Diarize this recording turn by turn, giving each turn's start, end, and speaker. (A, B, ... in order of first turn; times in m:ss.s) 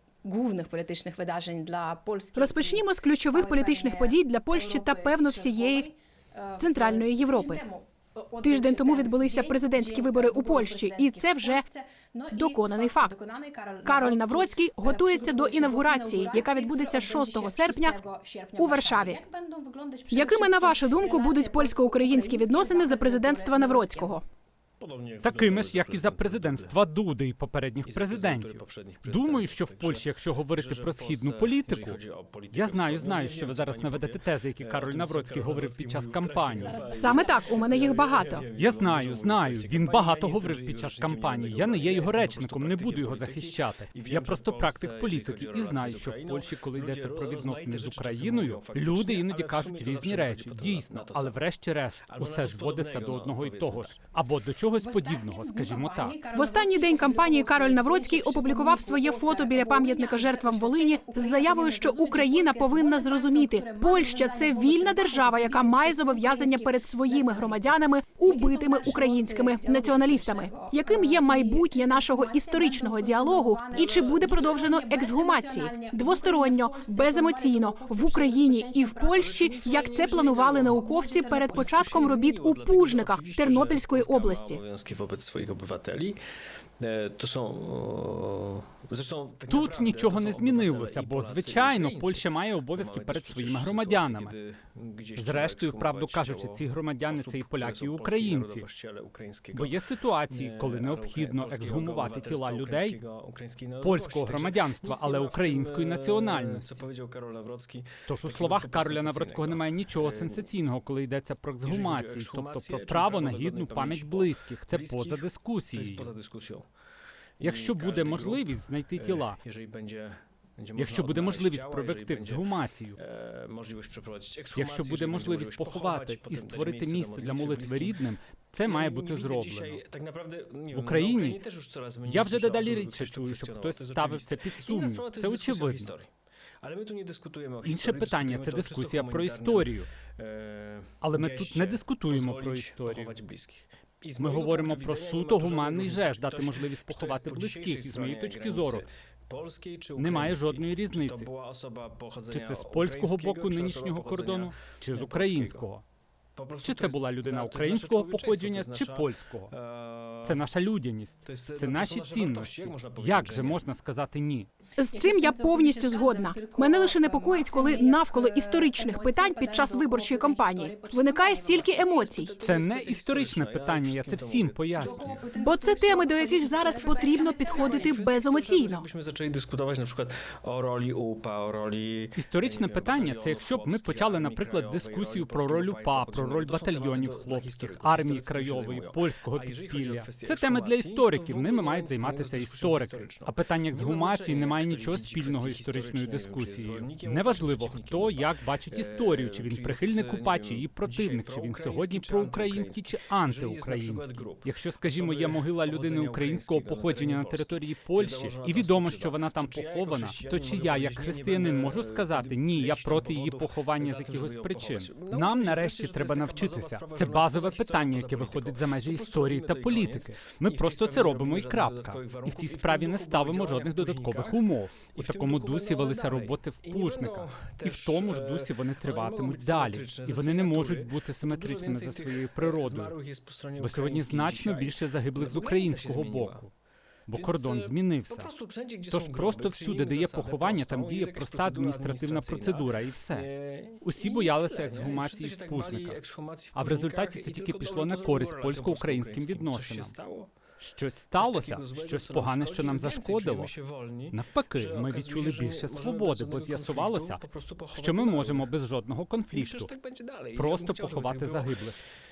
0:00.2-0:24.2 A
0:02.4-0:05.9 B
0:06.6-0:07.6 B
0:08.4-0:11.6 B
0:12.3-0:13.1 B
0:13.8-0:18.0 B
0:18.6-0:19.2 B
0:20.1-0:24.2 B
0:24.8-0:26.8 C
0:25.2-0:32.0 D
0:27.8-0:51.4 C
0:32.5-0:36.8 D
0:36.5-0:38.2 A
0:36.8-0:38.4 B
0:38.5-0:56.2 D
0:52.1-0:54.0 C
0:54.8-1:22.0 A
0:56.3-1:24.6 B
1:19.0-1:26.2 C
1:26.8-1:50.5 C
1:29.5-1:34.3 D
1:35.2-1:38.6 D
1:39.5-1:43.0 D
1:43.8-1:46.8 D
1:48.1-1:56.1 D
1:51.6-1:56.6 C
1:57.4-2:08.0 C
1:57.4-1:59.4 D
2:00.7-2:03.0 D
2:04.6-2:09.8 D
2:08.6-2:16.1 C
2:10.7-2:11.4 D
2:12.0-2:15.9 D
2:16.6-2:35.6 C
2:17.6-2:19.9 D
2:21.0-2:23.2 D
2:24.2-2:28.8 D
2:30.0-2:31.3 D
2:32.3-2:35.8 D
2:36.4-2:40.4 C
2:36.6-2:39.5 D
2:40.2-2:44.5 D
2:41.2-2:43.6 C
2:44.8-2:52.3 B
2:44.9-2:52.4 A
2:52.1-2:55.2 C
2:52.4-2:55.2 D
2:54.8-2:58.0 A
2:55.4-2:58.8 B
2:56.8-3:56.4 C
3:02.2-3:52.9 D
3:53.6-3:56.5 D
3:57.1-3:58.3 D
3:57.1-4:10.3 C
3:58.9-4:03.3 D
4:03.8-4:06.0 D
4:06.5-4:09.9 D
4:10.6-4:13.5 D
4:11.1-4:18.5 C
4:14.1-4:17.2 D
4:17.7-4:19.7 D
4:19.3-4:21.7 C
4:20.3-4:21.8 D